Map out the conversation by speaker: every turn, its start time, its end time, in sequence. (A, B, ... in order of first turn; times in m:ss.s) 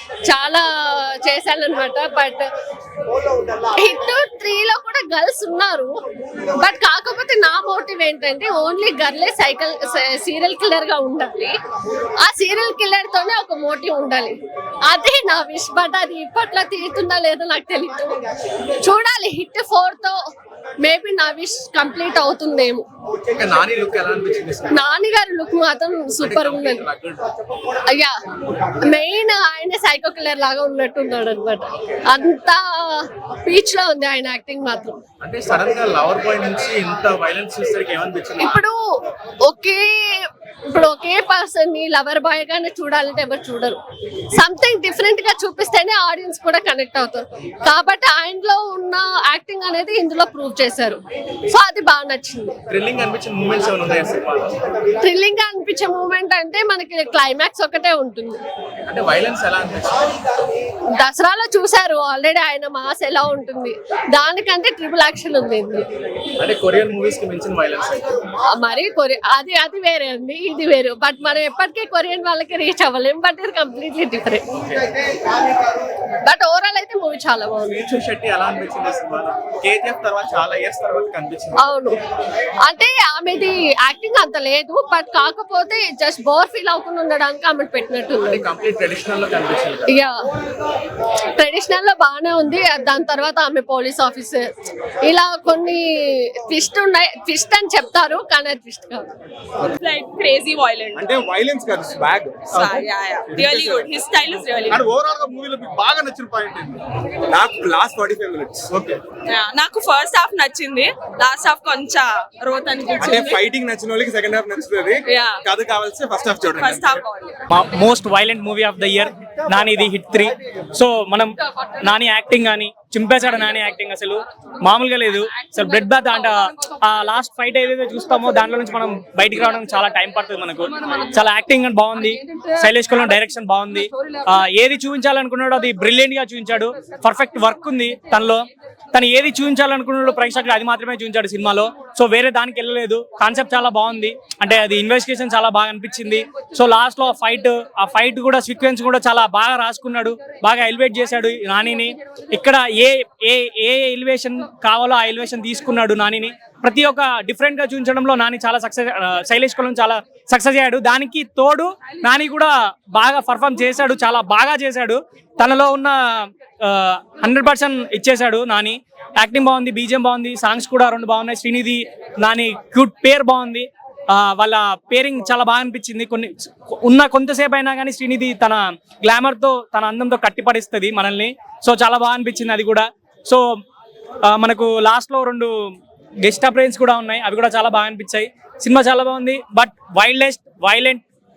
0:00.3-0:00.7 A
0:01.2-0:02.4 A
0:03.8-0:05.9 A
0:06.6-0:11.5 A
0:12.2-0:18.2 A
0:18.8-0:20.2 A
0:20.8-0:22.8 A
0:23.3-0:24.8 B
0:24.7-0:26.9 A
0:26.2-0:27.3 B
0:27.9-0:28.1 A
0:28.6-0:35.0 A
0:35.2-0:38.6 B
0:38.4-0:38.8 A
0:39.5-0:43.8 A
0:44.4-0:51.0 A
0:51.5-0:52.6 A
0:52.7-0:54.6 B
0:55.0-0:58.4 A
0:58.8-1:00.1 B
1:01.0-1:05.9 A
1:06.4-1:08.2 B
1:08.6-1:14.4 A
1:16.2-1:17.9 A
1:17.7-1:21.6 B
1:21.6-1:22.0 A
1:22.7-1:28.5 A
1:28.3-1:29.9 B
1:29.9-1:30.2 A
1:31.4-1:34.5 A
1:35.1-1:39.1 A
1:39.8-1:41.0 C
1:41.0-1:43.9 D
1:42.5-1:44.8 C
1:44.7-1:46.8 D
1:47.3-1:49.0 D
1:49.3-1:53.4 C
1:53.0-1:56.9 D
1:55.1-1:55.4 C
1:56.6-1:57.3 C
1:57.5-2:01.3 E
2:01.8-3:03.4 E
3:04.3-3:05.5 E
3:06.2-3:11.0 E